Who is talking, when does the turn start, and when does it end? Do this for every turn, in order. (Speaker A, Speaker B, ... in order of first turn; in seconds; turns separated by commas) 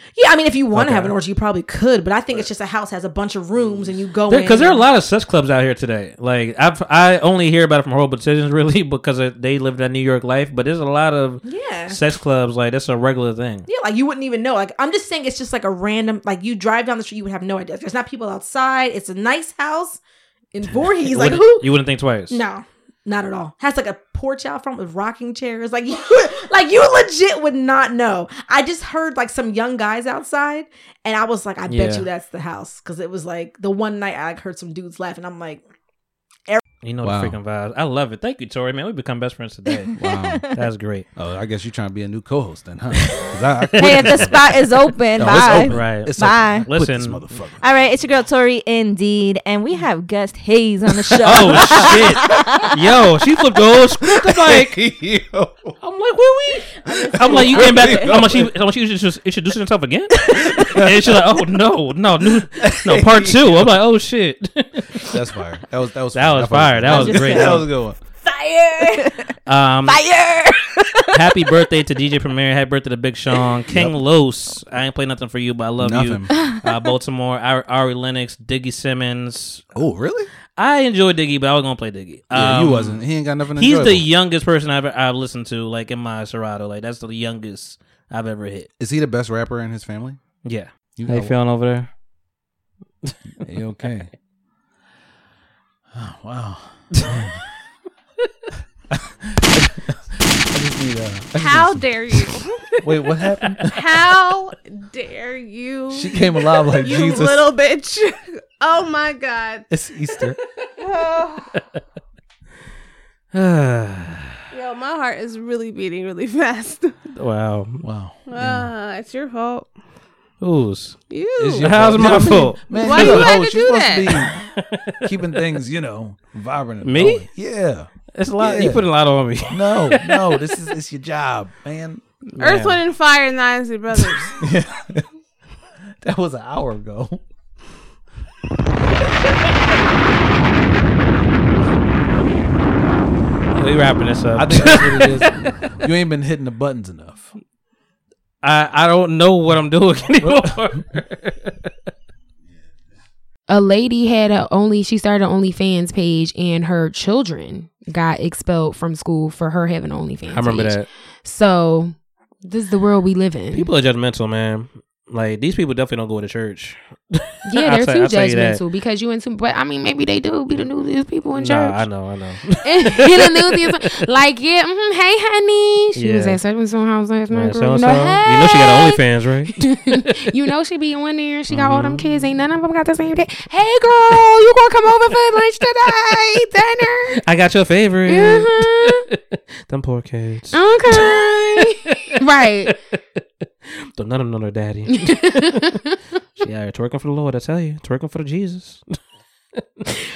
Speaker A: 0.1-4.8, Speaker B: 0.7-1.1, Speaker B: 4.3-13.7, Speaker A: 11.4-12.0, Speaker A: 13.7-20.0, Speaker A: 20.5-21.7, Speaker B: 21.0-22.4, Speaker A: 22.3-35.6, Speaker B: 31.7-32.1, Speaker B: 36.8-39.9, Speaker C: 37.0-37.4, Speaker C: 40.0-40.5, Speaker B: 40.5-41.1, Speaker C: 41.1-44.6, Speaker D: 43.8-46.7, Speaker B: 43.8-44.3, Speaker C: 45.2-47.6, Speaker B: 45.2-46.1, Speaker B: 46.6-47.2, Speaker D: 47.6-52.7, Speaker B: 51.2-54.8, Speaker C: 51.3-52.1, Speaker C: 54.2-55.7, Speaker B: 55.8-64.8, Speaker C: 57.0-58.5, Speaker C: 60.5-61.2, Speaker C: 62.6-63.7, Speaker C: 65.0-68.0, Speaker B: 66.1-67.7, Speaker D: 68.4-68.9, Speaker B: 69.5-70.0, Speaker D: 69.9-70.5, Speaker B: 71.1-79.7, Speaker C: 73.7-74.0, Speaker C: 75.8-76.4, Speaker C: 79.7-80.3, Speaker B: 80.6-83.0, Speaker C: 82.3-84.1, Speaker B: 83.5-88.7, Speaker C: 88.8-90.2, Speaker B: 90.4-91.9, Speaker C: 91.0-91.3, Speaker C: 93.4-94.1, Speaker C: 95.9-97.3, Speaker B: 97.0-97.2, Speaker C: 98.9-100.0, Speaker C: 100.5-103.8, Speaker E: 101.3-102.6, Speaker E: 103.7-109.7, Speaker C: 105.9-107.5, Speaker C: 109.7-110.4, Speaker E: 110.8-111.5, Speaker B: 113.3-114.3, Speaker E: 114.5-117.0, Speaker B: 117.1-117.8, Speaker C: 117.8-118.7, Speaker E: 118.3-119.7, Speaker B: 120.4-121.0, Speaker E: 121.1-124.3, Speaker C: 121.4-124.3, Speaker B: 121.5-123.3, Speaker B: 124.3-125.4, Speaker C: 125.0-127.9, Speaker B: 126.8-127.3, Speaker B: 128.1-130.5, Speaker C: 128.4-128.8, Speaker C: 129.5-132.0, Speaker B: 132.3-132.8, Speaker E: 132.4-134.4, Speaker C: 134.4-135.0, Speaker C: 136.0-137.2, Speaker B: 143.5-145.5, Speaker C: 144.3-147.3, Speaker B: 148.4-151.7, Speaker C: 150.2-150.5, Speaker F: 153.5-163.7, Speaker B: 160.3-160.9, Speaker B: 163.5-168.6, Speaker F: 167.5-171.8, Speaker B: 171.3-173.8, Speaker F: 172.6-179.0, Speaker B: 175.9-176.4, Speaker B: 177.3-179.6, Speaker F: 179.5-187.2, Speaker B: 181.5-182.2, Speaker B: 187.2-195.8, Speaker F: 188.1-189.0, Speaker F: 190.5-192.7, Speaker F: 194.9-195.9, Speaker B: 196.4-198.9